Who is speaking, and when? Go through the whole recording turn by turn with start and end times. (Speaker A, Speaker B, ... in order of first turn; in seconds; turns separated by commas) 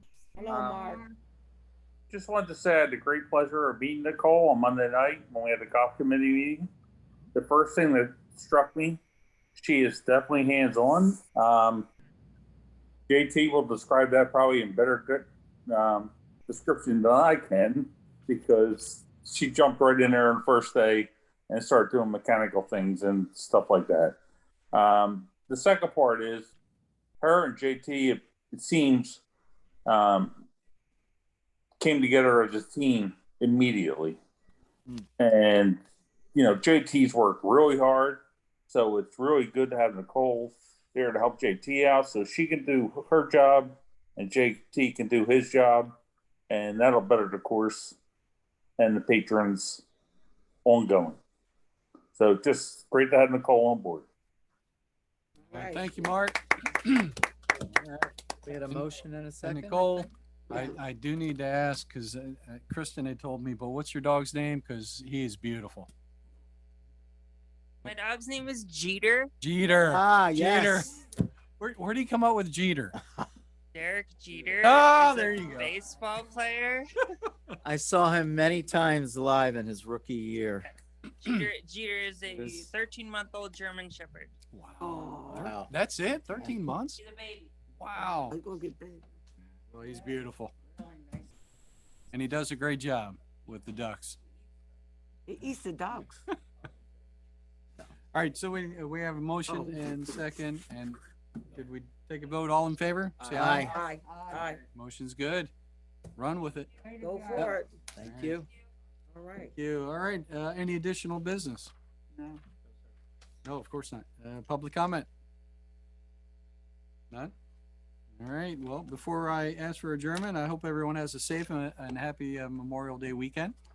Speaker A: 0.3-1.0, Speaker B: 0.5-1.0, Speaker B: 2.1-6.7, Speaker B: 7.3-9.0, Speaker B: 9.6-11.9, Speaker B: 13.1-24.2, Speaker B: 24.7-26.5, Speaker B: 27.2-29.2, Speaker B: 29.9-30.4, Speaker B: 31.8-34.2, Speaker B: 35.2-35.8, Speaker B: 36.3-45.9, Speaker B: 46.5-48.0, Speaker B: 48.8-49.8, Speaker B: 50.6-51.2, Speaker B: 52.1-54.1, Speaker A: 55.5-56.1, Speaker C: 55.5-58.1, Speaker D: 58.4-60.1, Speaker C: 59.4-65.9, Speaker E: 67.8-69.3, Speaker C: 69.4-71.0, Speaker D: 69.8-70.9, Speaker C: 71.6-72.9, Speaker E: 73.7-76.9, Speaker C: 74.6-75.7, Speaker D: 77.6-80.7, Speaker E: 81.2-84.3, Speaker D: 82.3-82.7, Speaker C: 84.5-87.0, Speaker A: 84.8-85.6, Speaker D: 85.3-85.7, Speaker C: 87.8-88.4, Speaker A: 88.3-89.0, Speaker C: 89.7-90.5, Speaker C: 92.1-94.2, Speaker A: 95.3-96.2, Speaker C: 98.1-101.0, Speaker A: 99.5-99.9, Speaker C: 101.5-103.8, Speaker D: 103.2-103.7, Speaker A: 103.6-104.6, Speaker C: 104.7-105.5, Speaker C: 106.2-108.4, Speaker A: 107.0-107.8, Speaker D: 108.0-108.5, Speaker A: 109.1-109.5, Speaker C: 109.5-111.7, Speaker C: 113.4-115.1, Speaker C: 118.2-123.5